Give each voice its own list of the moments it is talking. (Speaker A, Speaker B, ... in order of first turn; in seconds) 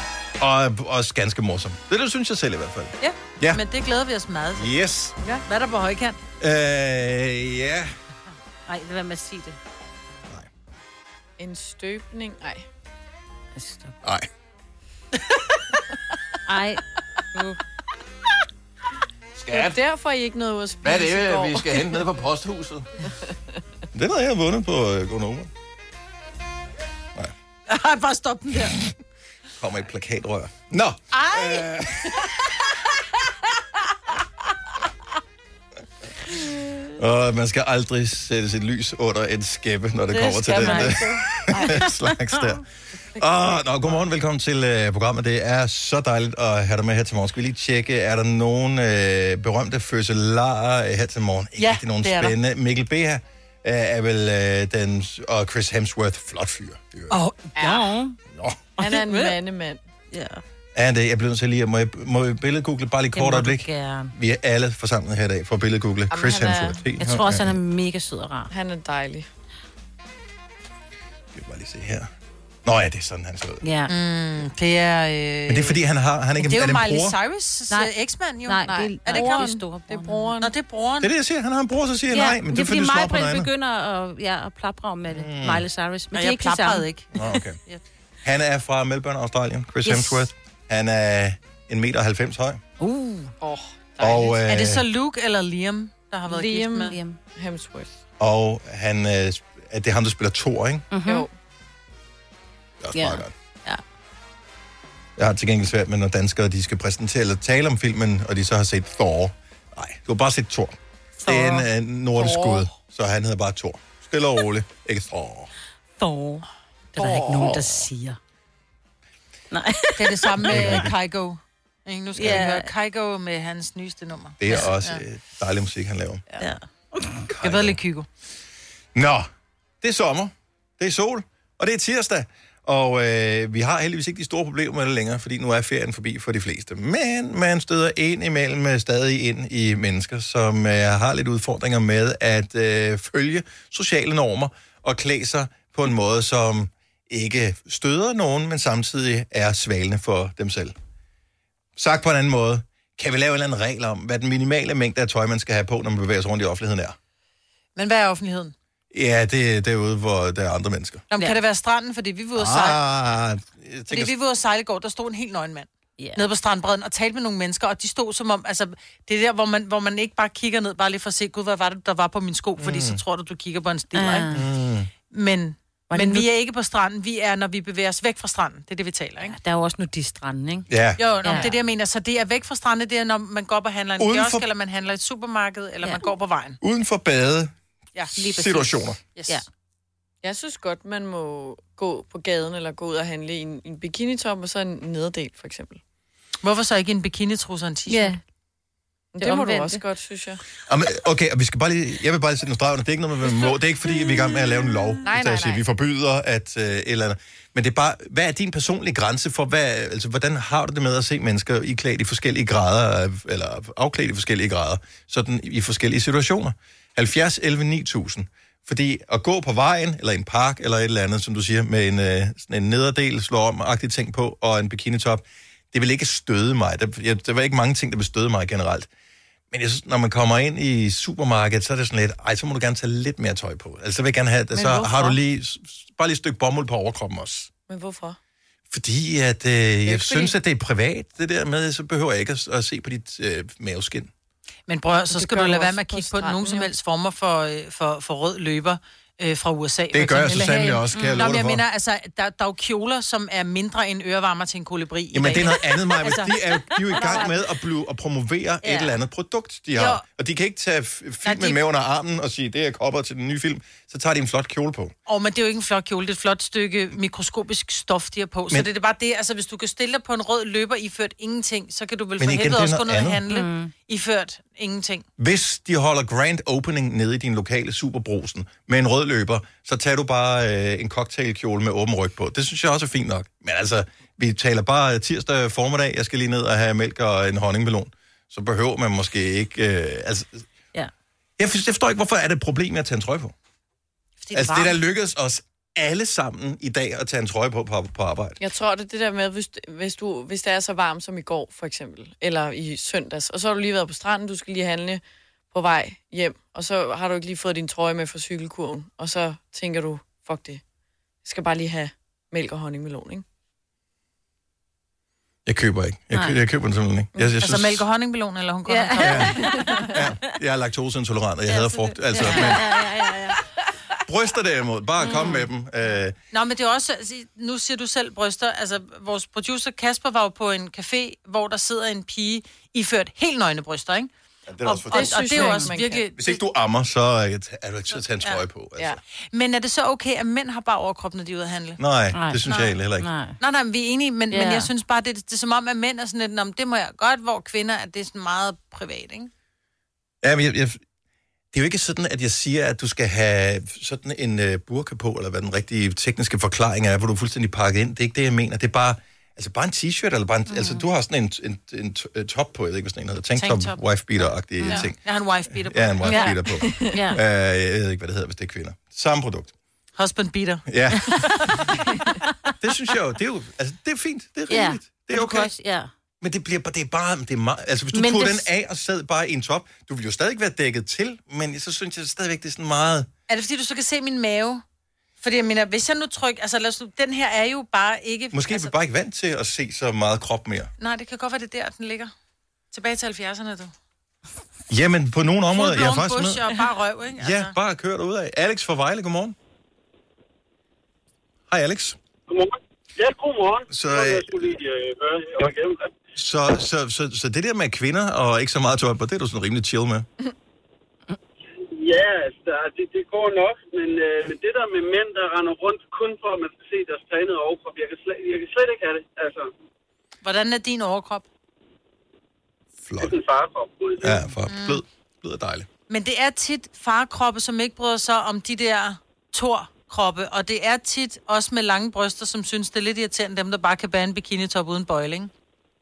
Speaker A: 0.4-3.6, 4.6-5.1, 6.4-7.9, 19.4-19.8, 20.8-22.9, 23.9-25.5, 29.6-32.3, 36.9-42.6, 43.2-57.2, 58.3-58.6, 60.7-67.6, 71.3-72.1, 72.6-73.6, 75.5-77.1, 81.0-83.5, 85.1-85.6, 87.1-87.6, 88.2-92.6, 94.0-94.8, 98.2-100.8, 102.8-103.3, 105.2-115.5, 120.5-120.9, 124.4-126.2, 127.2-127.8, 128.9-129.3, 129.8-150.7, 151.8-156.9, 158.9-161.0, 162.3-164.1, 172.6-173.0, 174.3-174.9, 180.7-181.0, 184.0-184.4, 186.6-187.5, 188.2-189.0, 200.7-228.9, 229.5-237.5, 238.7-244.1, 249.9-251.6, 255.1-264.9, 272.2-273.2, 275.2-290.5, 291.4-293.3, 294.3-298.4, 315.4-317.8, 319.0-319.3, 319.9-322.7, 324.0-326.1, 334.5-339.0, 341.8-343.1, 350.2-350.8, 351.5-365.0, 365.6-369.5, 370.7-371.6, 372.6-375.5, 376.2-383.1, 388.3-390.7, 394.7-396.5, 397.2-399.4, 401.5-402.0, 403.7-404.4, 406.2-410.1, 422.8-423.1, 424.0-425.7
Speaker B: 3.0-4.7, 5.5-6.2, 27.7-28.8, 31.3-31.6, 40.3-40.9, 51.6-52.4, 57.1-57.8, 73.9-75.8, 76.4-79.5, 80.4-81.1, 86.1-87.8, 94.4-97.0, 111.3-111.5, 120.0-125.0, 127.4-128.1, 157.8-158.5, 161.1-162.8, 163.9-174.3, 175.1-179.3, 181.0-186.6, 189.1-189.4, 196.4-198.2, 244.7-257.3, 259.7-260.0, 261.2-261.6, 265.1-275.1, 294.2-294.8, 317.4-319.7, 326.3-334.1, 334.6-336.4, 339.3-341.8, 343.4-349.3, 363.4-363.8, 364.6-366.4, 369.9-370.7, 383.3-384.6, 385.2-388.7, 390.8-392.1, 392.7-393.7, 395.5-397.5, 420.2-421.2, 424.5-424.8, 425.9-435.3
Speaker C: 8.7-9.6, 13.5-13.9, 16.4-16.8, 40.5-41.0, 57.6-58.1, 58.8-59.3, 60.1-60.4, 63.1-64.1, 67.0-68.5, 73.6-73.9, 78.5-80.3, 82.1-86.9, 89.8-90.3, 92.8-93.3, 96.9-97.2, 100.9-101.3, 102.9-103.8, 116.0-118.2, 119.5-120.9, 122.2-122.7, 126.4-127.2, 166.0-166.2, 173.9-174.4, 175.9-176.2, 179.3-180.7, 181.2-181.5, 188.2-189.4, 197.9-198.2, 199.2-199.8, 250.9-251.3, 256.9-257.3, 258.6-258.9, 273.3-273.7, 316.1-316.4, 318.7-320.0, 321.5-323.4, 325.0-325.4, 342.1-343.4, 344.3-344.7, 360.5-360.8, 364.6-364.9, 366.0-366.4, 366.9-367.2, 374.5-375.9, 377.9-378.4
Speaker D: 11.4-12.7, 19.5-22.0, 23.1-23.3, 40.3-41.7, 57.5-57.9, 58.8-59.8, 66.1-66.8, 68.5-69.3, 78.6-80.5, 93.4-94.4, 96.3-97.9, 101.0-101.3, 112.2-112.7, 190.2-195.8, 199.1-200.4, 205.1-205.6, 237.7-238.2, 245.1-246.7, 298.4-310.6, 311.2-313.2, 319.4-319.8, 334.9-336.0, 366.5-367.0
Speaker E: 402.3-405.9, 411.7-419.5, 423.0-424.3